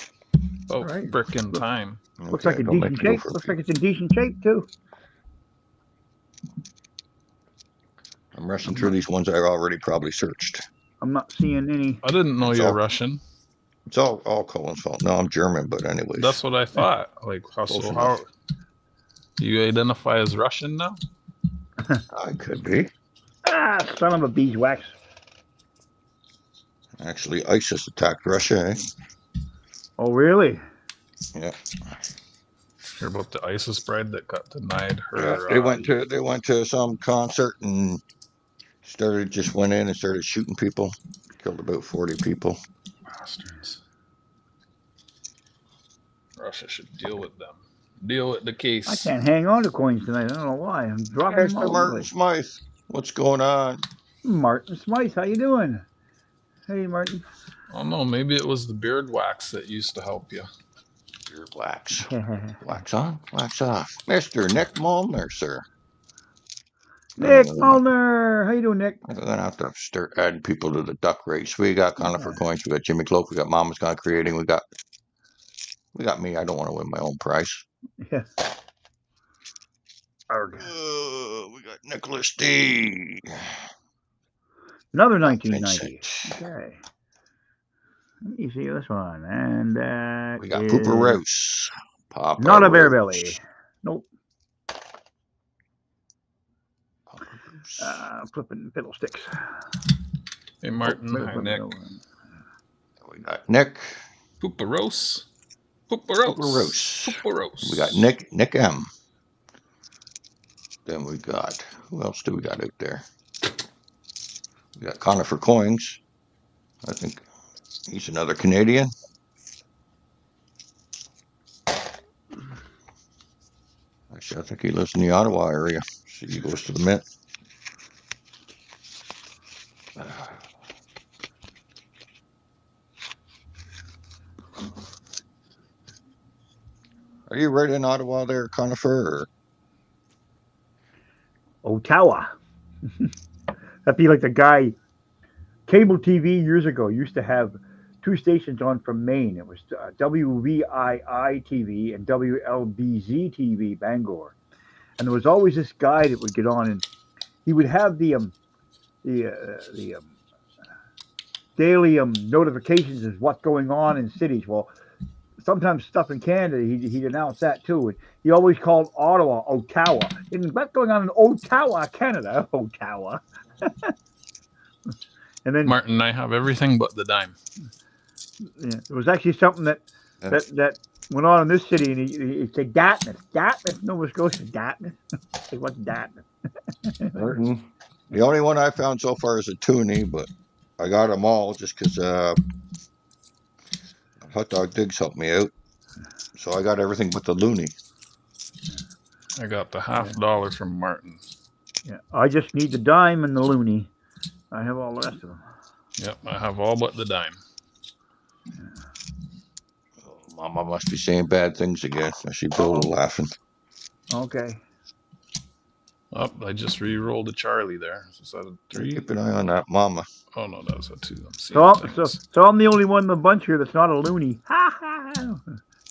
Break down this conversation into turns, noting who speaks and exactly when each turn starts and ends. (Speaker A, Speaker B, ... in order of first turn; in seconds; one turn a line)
Speaker A: 0.7-2.0
Speaker B: 0.8-1.1
Speaker C: 2.2-3.5
Speaker B: 2.3-4.7
Speaker C: 8.3-10.6
Speaker B: 11.0-12.0
Speaker A: 12.0-13.2
Speaker C: 12.4-12.8
Speaker C: 13.9-16.4
Speaker A: 16.2-18.3
Speaker C: 17.7-18.2
Speaker A: 19.4-21.0
Speaker C: 22.1-22.9
Speaker B: 23.4-24.9
Speaker C: 27.0-28.9
Speaker B: 30.0-30.6
Speaker C: 31.3-32.0
Speaker A: 33.0-35.9
Speaker C: 35.1-38.0
Speaker C: 38.8-42.6
Speaker A: 43.1-43.8
Speaker A: 46.4-49.1
Speaker B: 48.9-52.1
Speaker C: 51.3-53.8
Speaker B: 54.2-55.8
Speaker B: 56.7-57.2
Speaker A: 57.7-60.5
Speaker C: 61.3-65.7
Speaker B: 62.0-62.6
Speaker C: 67.2-67.8
Speaker B: 67.2-69.0
Speaker C: 69.0-74.6
Speaker B: 72.0-72.4
Speaker C: 75.9-77.6
Speaker B: 78.0-78.3
Speaker B: 80.3-80.7
Speaker C: 80.6-83.7
Speaker B: 84.9-86.8
Speaker C: 85.2-86.3
Speaker B: 88.2-91.2
Speaker C: 90.4-93.3
Speaker B: 92.4-94.0
Speaker C: 97.1-98.0
Speaker B: 97.8-99.5
Speaker A: 100.6-101.6
Speaker B: 100.8-102.0
Speaker C: 103.0-104.0
Speaker A: 104.4-105.2
Speaker A: 105.9-108.0
Speaker C: 106.2-108.9
Speaker C: 110.8-113.0
Speaker C: 114.8-116.0
Speaker C: 116.8-117.2
Speaker C: 117.9-118.9
Speaker C: 124.1-127.0
Speaker C: 129.9-130.4
Speaker C: 137.3-139.3
Speaker B: 141.6-142.3
Speaker B: 143.8-144.8
Speaker B: 145.7-154.3
Speaker B: 155.0-156.8
Speaker B: 157.4-158.3
Speaker B: 159.0-160.1
Speaker B: 161.6-164.7
Speaker B: 165.4-173.9
Speaker B: 175.4-175.8
Speaker A: 175.7-177.3
Speaker B: 178.4-186.2
Speaker B: 186.8-187.2
Speaker C: 187.1-192.4
Speaker C: 194.2-195.5
Speaker C: 196.3-197.7
Speaker A: 199.3-201.2
Speaker B: 201.8-203.9
Speaker B: 204.5-205.4
Speaker A: 206.0-207.4
Speaker C: 210.0-213.3
Speaker B: 212.6-212.9
Speaker B: 214.1-214.6
Speaker A: 216.1-219.0
Speaker C: 218.7-220.1
Speaker A: 220.3-222.2
Speaker B: 221.5-225.4